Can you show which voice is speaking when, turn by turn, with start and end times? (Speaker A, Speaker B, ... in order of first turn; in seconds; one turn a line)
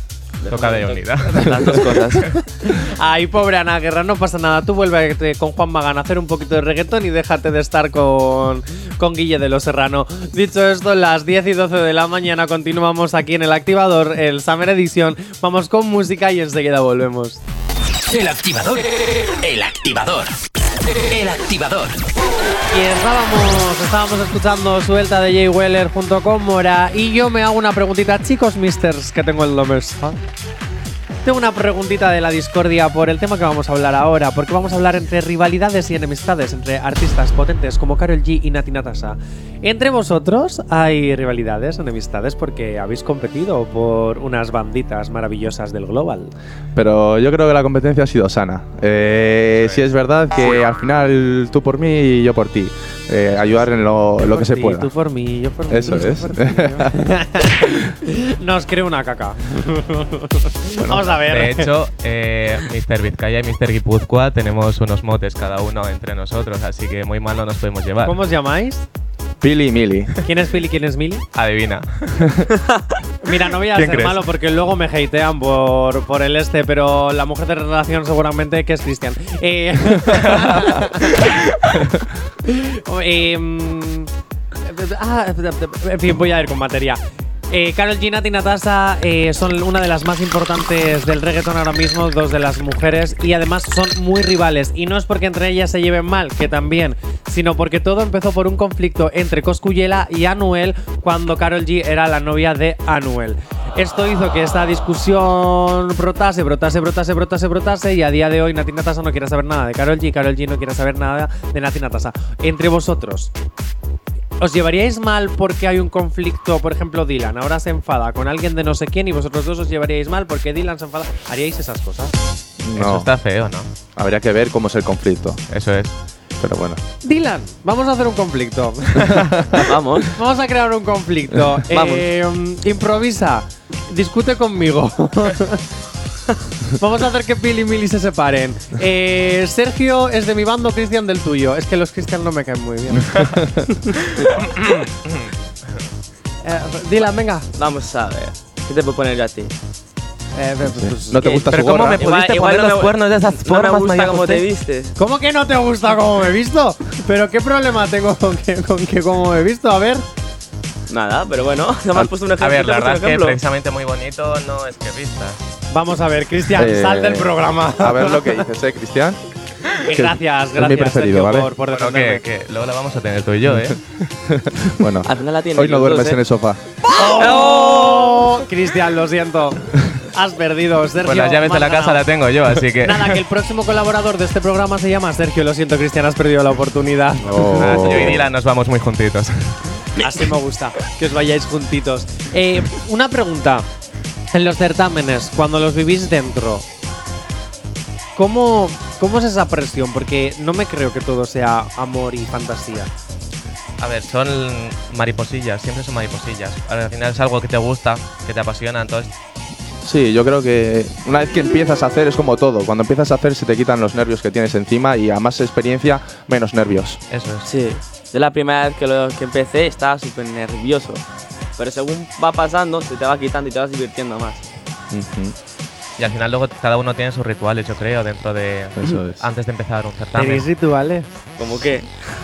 Speaker A: 0.4-2.2
Speaker B: 0.5-1.8
Speaker C: 2.6-17.4
Speaker D: 18.1-20.3
Speaker D: 21.1-22.0
Speaker C: 22.7-30.2
Speaker C: 31.2-46.3
Speaker E: 46.7-54.9
Speaker C: 54.3-61.7
Speaker E: 55.7-57.0
Speaker B: 61.2-68.2
Speaker C: 68.0-68.8
Speaker E: 69.4-70.1
Speaker C: 70.2-71.2
Speaker B: 71.3-72.1
Speaker C: 73.2-81.4
Speaker B: 73.8-74.1
Speaker C: 82.5-84.1
Speaker C: 84.6-113.3
Speaker C: 114.4-122.1
Speaker E: 122.6-123.1
Speaker B: 122.7-123.7
Speaker E: 124.0-125.4
Speaker B: 125.5-125.9
Speaker E: 126.4-126.8
Speaker C: 127.0-129.3
Speaker A: 129.6-130.1
Speaker C: 130.1-135.6
Speaker A: 131.7-132.1
Speaker C: 136.8-143.2
Speaker E: 143.2-143.6
Speaker C: 146.4-147.4
Speaker A: 147.6-149.5
Speaker C: 150.3-151.4
Speaker E: 150.6-152.0
Speaker B: 151.4-154.4
Speaker A: 151.8-154.9
Speaker C: 155.0-160.0
Speaker A: 160.9-163.4
Speaker B: 162.2-165.4
Speaker C: 165.7-168.4
Speaker E: 166.5-169.2
Speaker C: 169.8-172.2
Speaker E: 169.9-171.5
Speaker B: 171.6-173.8
Speaker E: 173.5-173.7
Speaker E: 174.3-176.6
Speaker A: 175.0-176.2
Speaker C: 176.9-179.6
Speaker C: 180.1-182.1
Speaker B: 181.0-183.2
Speaker C: 182.8-188.0
Speaker E: 187.2-188.2
Speaker B: 187.5-189.5
Speaker C: 190.0-193.7
Speaker C: 194.3-196.6
Speaker C: 198.2-202.9
Speaker B: 203.8-209.1
Speaker E: 209.8-217.0
Speaker B: 217.1-217.4
Speaker A: 217.4-221.0
Speaker A: 221.6-224.4
Speaker E: 224.9-225.3
Speaker B: 226.0-230.4
Speaker E: 228.8-229.2
Speaker C: 230.1-231.1
Speaker A: 231.4-232.0